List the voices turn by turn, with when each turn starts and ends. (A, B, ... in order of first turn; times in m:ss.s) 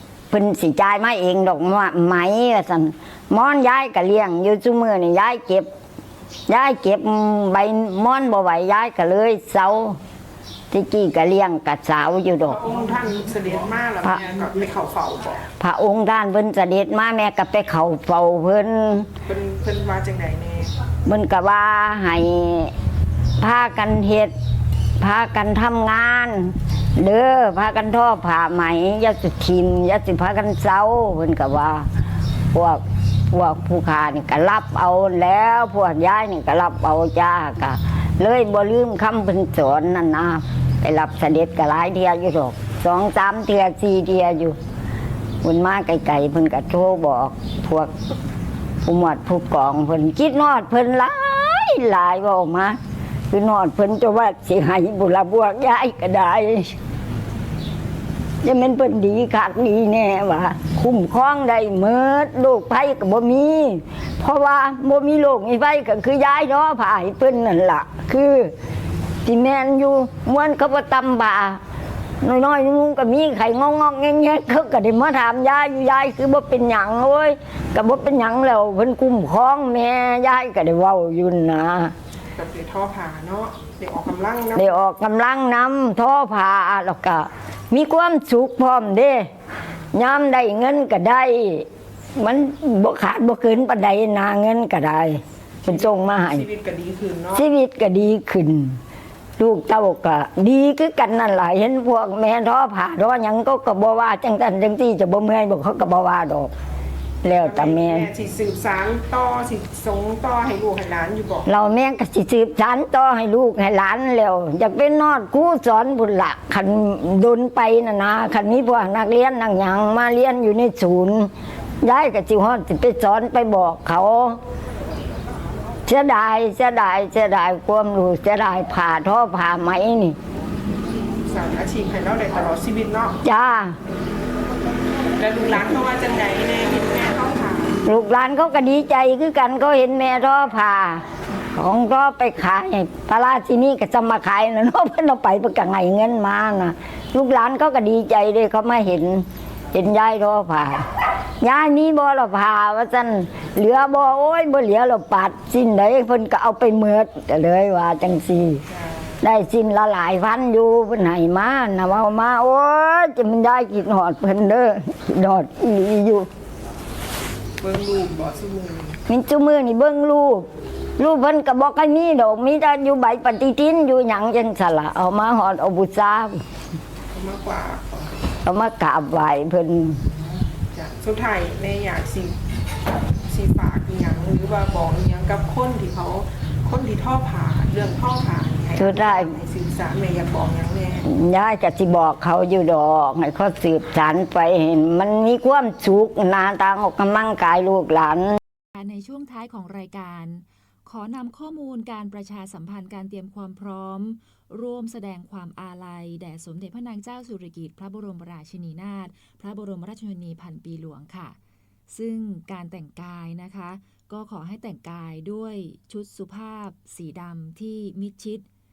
0:00.3-0:05.7 A
0:06.5-0:10.0 A
0:10.7-0:12.6 A
0:12.5-0:15.4 B
0:15.6-0:19.1 A
0:19.3-0:20.7 B
0:21.0-0:22.7 A
0:23.4-0:24.3 A
0:25.0-0:31.9 A
0:32.5-0:44.6 A
0:45.4-0:47.9 A
0:48.8-0:52.8 A
0:53.3-0:56.8 A
0:58.4-1:08.5 A
1:09.2-1:11.6 A
1:12.2-1:21.9 A
1:22.4-1:24.8 B
1:24.6-1:29.3 A
1:29.9-1:36.4 A
1:35.6-1:37.4 B
1:37.3-1:38.8 A
1:39.4-1:46.5 A
1:47.2-1:48.1 A
1:47.4-1:51.5 B
1:51.5-2:01.3 A
2:01.8-2:04.4 A
2:05.9-2:10.2 A
2:11.2-2:13.2 B
2:13.2-2:13.8 A
2:15.2-2:17.8 B
2:17.8-2:38.6 A
2:38.7-2:39.2 B
2:39.2-2:46.3 A
2:47.6-2:49.0 B
2:49.1-2:50.5 A
2:51.0-2:56.4 A
2:57.1-2:58.1 B
2:58.4-3:00.0 A
3:00.7-3:02.4 B
3:03.3-3:11.0 B
3:08.8-3:09.3 A
3:11.0-3:18.4 A
3:18.7-3:31.4 C
3:31.9-3:38.4 C